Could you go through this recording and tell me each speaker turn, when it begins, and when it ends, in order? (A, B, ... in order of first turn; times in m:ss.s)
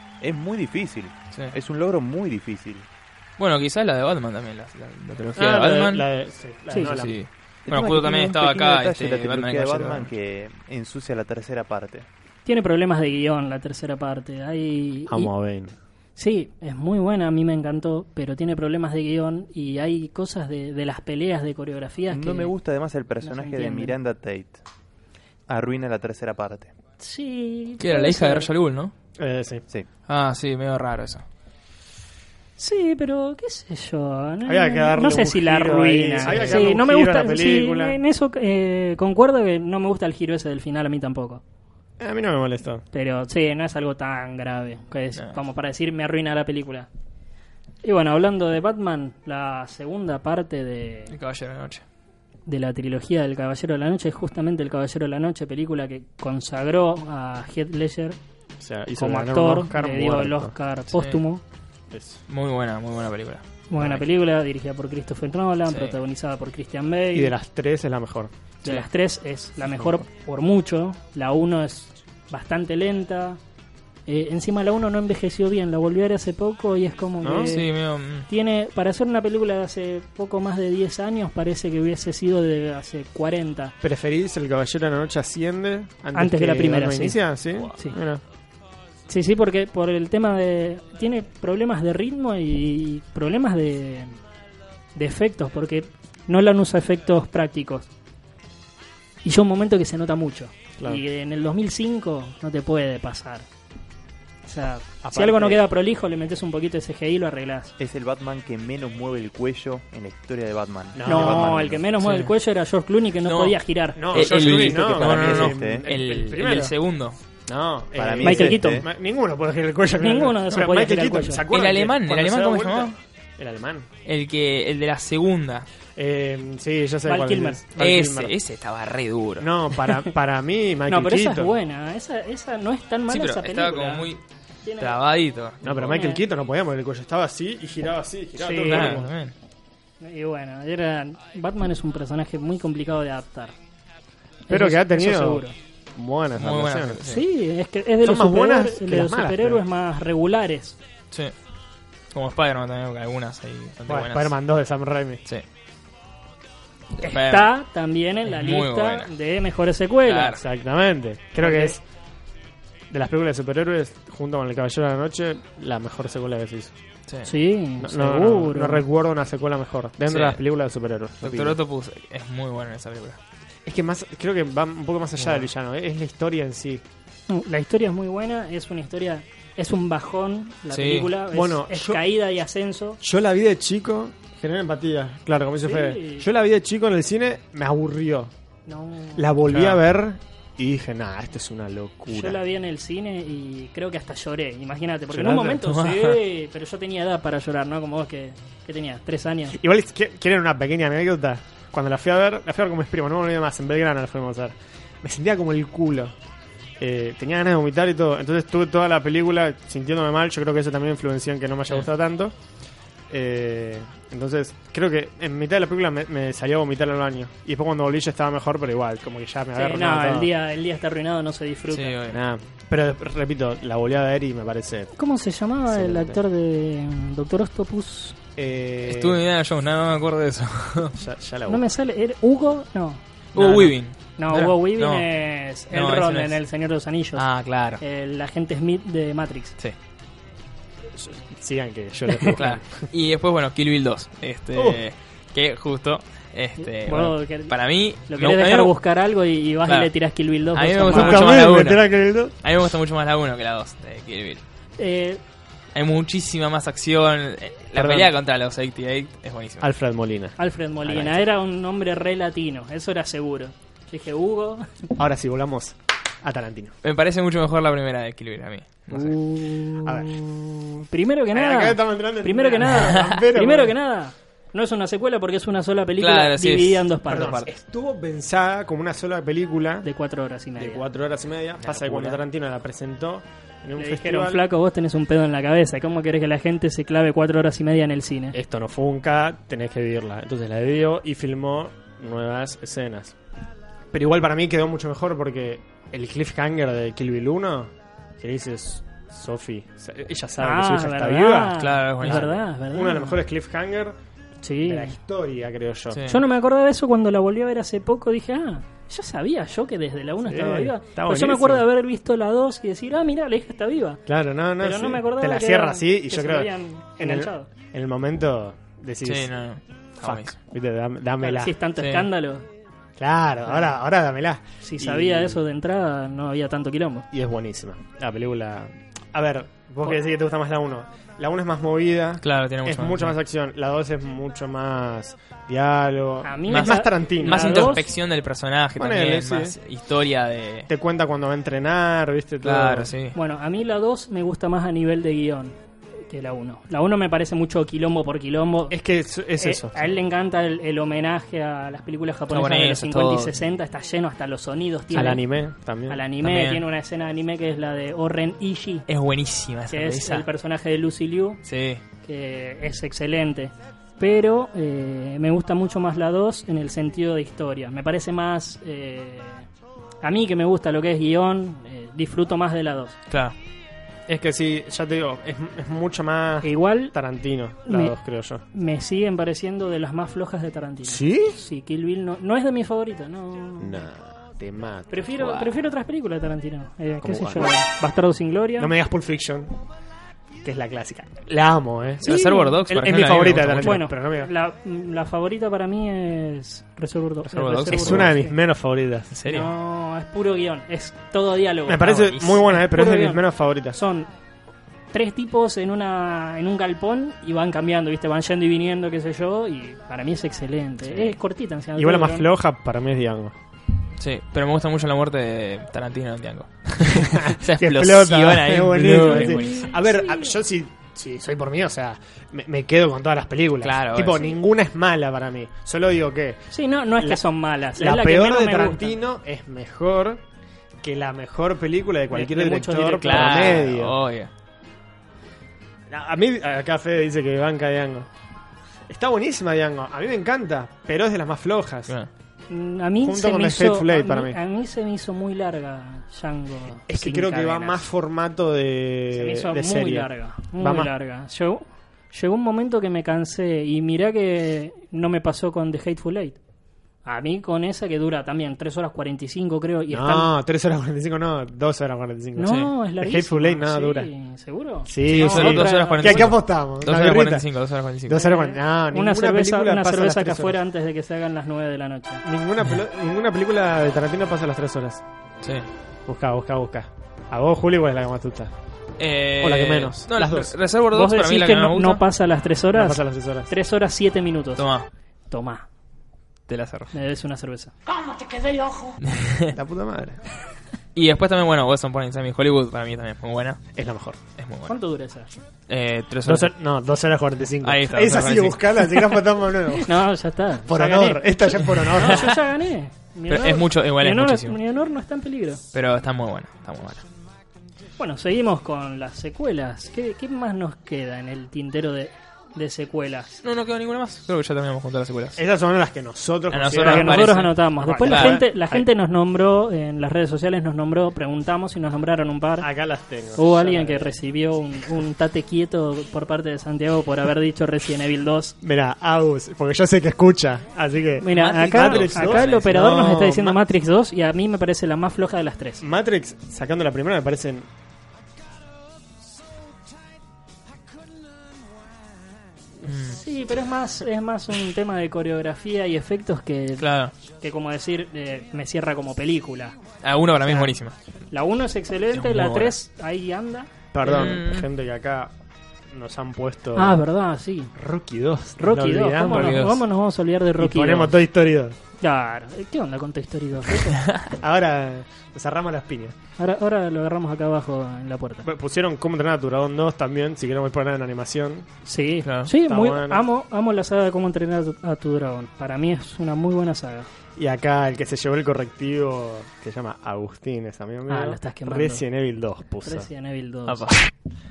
0:00.2-0:02.8 A
0:03.4-0:06.1 B
0:05.2-0:07.2 C
0:06.8-0:10.1 B
0:07.7-0:12.0 A
0:12.4-0:15.3 D
0:15.1-0:15.7 C
0:16.2-0:22.5 D
0:22.1-0:24.6 A
0:23.2-0:24.0 D
0:25.5-0:26.7 A
0:27.0-0:28.5 D
0:27.8-0:28.9 B
0:29.2-0:29.6 C
0:30.1-0:31.2 B
0:32.6-0:41.4 D
0:34.4-0:38.0 C
0:36.2-0:36.6 B
0:42.0-0:42.8 C
0:42.9-0:46.9 D
0:47.8-0:51.1 D
0:51.1-0:51.8 B
0:52.4-0:58.2 D
0:58.6-1:00.5 C
0:58.9-1:01.4 D
1:00.9-1:01.2 B
1:01.9-1:02.2 C
1:02.3-1:04.0 B
1:03.7-1:07.3 D
1:05.7-1:06.0 B
1:07.1-1:08.3 C
1:08.6-1:13.4 D
1:14.1-1:17.7 D
1:17.2-1:17.6 C
1:17.5-1:18.3 B
1:18.3-1:23.7 D
1:23.8-1:28.2 C
1:26.1-1:28.0 D
1:29.1-1:34.2 D
1:34.9-1:37.9 D
1:39.2-1:43.4 D
1:44.4-1:47.7 D
1:45.0-1:45.6 C
1:47.8-1:51.8 A
1:50.9-1:51.7 C
1:51.0-1:54.4 D
1:52.0-1:52.3 B
1:53.2-1:57.2 B
1:54.0-1:56.7 C
1:54.9-1:55.8 A
1:57.5-2:03.9 C
1:58.0-1:58.8 A
1:58.2-1:58.8 D
2:00.0-2:01.4 D
2:01.5-2:02.9 B
2:04.0-2:05.7 B
2:06.0-2:08.4 C
2:07.0-2:07.6 D
2:07.8-2:09.5 B
2:09.4-2:11.5 C
2:10.9-2:14.0 D
2:13.1-2:14.2 B
2:14.6-2:15.0 D
2:14.8-2:16.0 B
2:15.6-2:19.1 C
2:15.9-2:16.2 D
2:18.4-2:19.0 D
2:18.6-2:19.3 B
2:20.0-2:23.6 D
2:24.5-2:25.5 D
2:24.5-2:25.4 C
2:25.9-2:27.0 C
2:26.4-2:27.2 B
2:27.0-2:30.8 D
2:28.0-2:29.6 C
2:32.1-2:34.3 B
2:33.9-2:35.2 C
2:37.0-2:37.5 B
2:37.0-2:40.4 D
2:38.2-2:39.1 B
2:40.0-2:40.4 B
2:40.4-2:41.8 C
2:41.4-2:41.7 D
2:42.9-2:46.8 C
2:47.2-2:48.8 D
2:47.8-2:51.6 C
2:50.1-2:50.4 B
2:51.2-2:53.2 B
2:53.6-2:56.8 C
2:57.3-3:03.0 D
3:00.7-3:01.1 B
3:01.3-3:02.0 C
3:03.0-3:08.3 C
3:05.6-3:06.3 D
3:08.7-3:09.2 D
3:09.2-3:12.4 C
3:09.5-3:09.8 B
3:12.1-3:19.6 D
3:15.1-3:15.6 C
3:15.6-3:16.1 B
3:19.5-3:26.1 C
3:26.8-3:32.3 C
3:33.1-3:40.3 C
3:39.6-3:42.0 D
3:41.7-3:42.2 B
3:42.1-3:44.9 C
3:45.0-3:48.2 D
3:45.7-3:46.2 C
3:48.4-3:49.2 C
3:48.8-3:50.9 B
3:50.9-3:51.6 C
3:51.5-3:57.3 D
3:53.3-3:55.0 B
3:55.7-3:56.4 B
3:57.2-3:57.8 B
3:57.8-3:59.6 D
4:00.9-4:02.9 C
4:02.4-4:08.8 B
4:04.5-4:04.8 C
4:06.6-4:07.5 D
4:08.1-4:11.3 D
4:10.5-4:11.9 B
4:10.8-4:12.3 C
4:12.4-4:14.4 B
4:14.8-4:15.2 D
4:15.7-4:19.7 B
4:17.7-4:18.1 C
4:19.6-4:20.4 C
4:20.4-4:24.7 D
4:20.9-4:21.1 B
4:25.0-4:26.7 C
4:26.8-4:29.1 B
4:28.9-4:29.2 C
4:29.0-4:30.2 D
4:29.8-4:33.8 C
4:30.9-4:37.4 D
4:36.0-4:37.5 B
4:37.1-4:39.9 C
4:39.8-4:40.8 D
4:40.6-4:44.4 C
4:41.6-4:42.2 B
4:43.8-4:48.4 D
4:48.3-4:53.1 C
4:53.9-5:04.0 C
5:00.4-5:03.2 D
5:01.6-5:02.2 B
5:04.4-5:05.0 D
5:04.6-5:06.1 C
5:05.9-5:06.2 B
5:06.1-5:14.0 D
5:10.2-5:11.6 C
5:14.1-5:19.3 C
5:14.6-5:17.5 D
5:19.0-5:20.3 B
5:20.0-5:21.5 C
5:21.2-5:22.5 D
5:21.8-5:22.1 B
5:23.0-5:25.4 C
5:24.6-5:27.1 D
5:27.1-5:37.8 C
5:32.2-5:33.2 B
5:36.2-5:37.8 D
5:36.5-5:40.7 B
5:38.8-5:39.6 C
5:40.7-5:42.9 C
5:42.4-5:43.1 B
5:43.1-5:45.6 D
5:46.1-5:48.8 D
5:48.7-5:49.9 C
5:49.4-5:55.2 D
5:52.3-5:53.3 B
5:54.9-5:56.0 C
5:55.9-5:58.8 D
5:56.2-5:56.6 B
5:58.9-6:00.2 B
5:59.7-6:01.4 D
6:01.4-6:01.8 B
6:02.0-6:09.5 D
6:10.0-6:13.0 D
6:14.1-6:18.4 C
6:16.4-6:16.9 D
6:17.6-6:18.0 D
6:18.5-6:23.9 D
6:20.8-6:21.4 C
6:23.6-6:25.5 C
6:24.9-6:28.7 D
6:27.0-6:27.5 C
6:28.6-6:29.6 C
6:30.4-6:34.3 C
6:32.0-6:32.9 D
6:32.0-6:33.8 B
6:33.6-6:38.3 D
6:37.3-6:38.1 B
6:37.7-6:39.1 C
6:39.1-6:39.5 B
6:39.3-6:44.1 D
6:41.6-6:43.8 C
6:41.8-6:42.4 B
6:44.9-6:52.3 D
6:50.9-6:51.1 B
6:51.7-6:53.3 C
6:54.0-6:59.7 B
6:56.9-7:07.2 C
6:59.0-7:00.4 D
7:03.6-7:04.3 B
7:06.5-7:09.0 D
7:07.7-7:10.2 C
7:10.8-7:14.0 C
7:12.1-7:13.6 D
7:13.0-7:14.3 B
7:15.9-7:18.1 C
7:18.9-7:21.9 C
7:22.5-7:27.8 D
7:23.0-7:24.4 C
7:26.9-7:30.9 C
7:29.1-7:36.4 D
7:37.0-7:40.3 D
7:39.9-7:44.1 C
7:42.4-7:46.3 D
7:44.8-7:47.5 C
7:45.0-7:48.2 B
7:48.0-7:50.6 C
7:48.1-7:52.2 D
7:52.2-7:55.0 C
7:56.0-7:58.5 C
7:59.0-8:02.0 B
7:59.4-8:00.5 C
8:00.9-8:04.6 D
8:02.7-8:03.5 C
8:04.6-8:04.8 B
8:05.3-8:05.7 D
8:06.5-8:06.9 B
8:06.9-8:07.7 D
8:09.0-8:09.5 B
8:09.5-8:10.2 C
8:10.9-8:13.6 B
8:13.7-8:14.2 C
8:14.4-8:14.7 B
8:14.7-8:15.3 D
8:15.7-8:16.5 B
8:16.2-8:19.9 C
8:17.6-8:18.6 B
8:19.7-8:25.6 D
8:20.6-8:22.4 C
8:23.3-8:24.6 B
8:25.7-8:27.0 B
8:28.0-8:33.4 D
8:33.4-8:35.4 B
8:35.4-8:38.8 C
8:36.5-8:38.4 B
8:36.8-8:42.7 D
8:42.6-8:44.2 C
8:43.4-8:48.5 D
8:48.6-8:53.6 C
8:51.2-8:55.8 D
8:51.3-8:52.7 B
8:55.8-8:57.7 C
9:02.8-9:03.2 B
9:03.0-9:09.8 D
9:06.8-9:07.1 B
9:10.0-9:10.9 B
9:10.4-9:10.7 D
9:11.3-9:13.7 D
9:12.1-9:12.7 B
9:13.9-9:15.3 C
9:14.0-9:14.7 B
9:15.9-9:17.0 C
9:16.7-9:17.7 D
9:17.7-9:19.7 C
9:18.6-9:21.1 D
9:19.2-9:19.8 B
9:20.6-9:21.8 C
9:22.0-9:24.0 D
9:24.4-9:26.1 C
9:26.4-9:28.4 D
9:28.4-9:31.7 C
9:31.8-9:37.1 D
9:32.2-9:32.5 B
9:32.6-9:33.2 C
9:37.4-9:43.1 C
9:41.1-9:42.0 D
9:42.8-9:43.9 D
9:43.7-9:44.1 B